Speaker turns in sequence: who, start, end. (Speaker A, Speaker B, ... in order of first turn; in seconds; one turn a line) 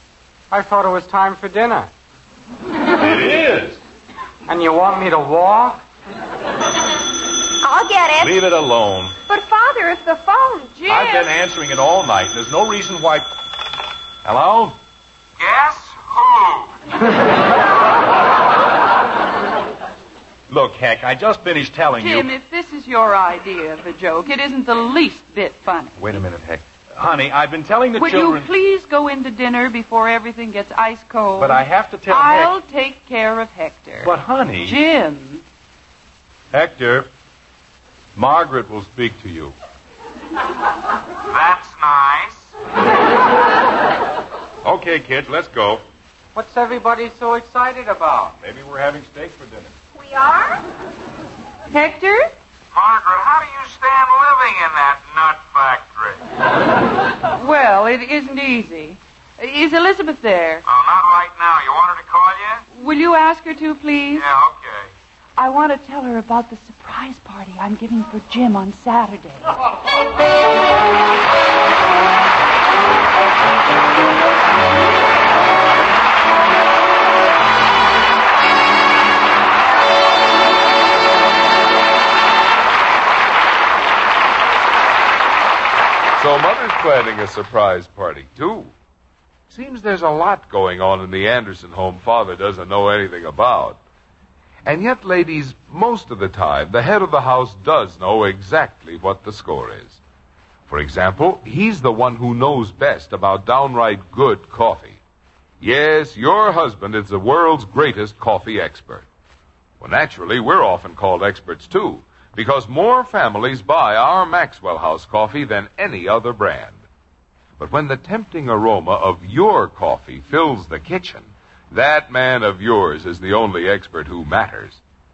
Speaker A: 0.5-1.9
Speaker B: 2.9-3.8
Speaker A: 4.5-5.8
Speaker C: 7.6-8.4
Speaker B: 8.2-9.2
Speaker C: 9.3-10.8
Speaker D: 10.8-11.3
Speaker B: 10.9-13.3
Speaker B: 14.2-14.8
Speaker E: 15.4-16.8
Speaker B: 20.5-22.3
Speaker D: 22.0-26.2
Speaker B: 26.0-28.5
Speaker D: 28.0-35.4
Speaker B: 31.4-32.5
Speaker B: 34.0-34.8
Speaker B: 36.5-37.1
Speaker B: 38.1-39.5
Speaker E: 41.3-42.5
Speaker B: 44.6-45.8
Speaker A: 46.3-48.4
Speaker B: 48.4-49.8
Speaker C: 50.0-50.6
Speaker D: 51.7-52.3
Speaker E: 52.7-56.2
Speaker D: 57.3-60.6
Speaker E: 60.6-62.6
Speaker D: 62.7-64.2
Speaker E: 64.1-64.9
Speaker D: 65.4-69.5
Speaker F: 86.2-88.7
Speaker F: 89.5-93.8
Speaker F: 94.7-100.0
Speaker F: 100.7-105.0
Speaker F: 105.6-109.1
Speaker F: 109.8-116.8
Speaker F: 117.6-124.8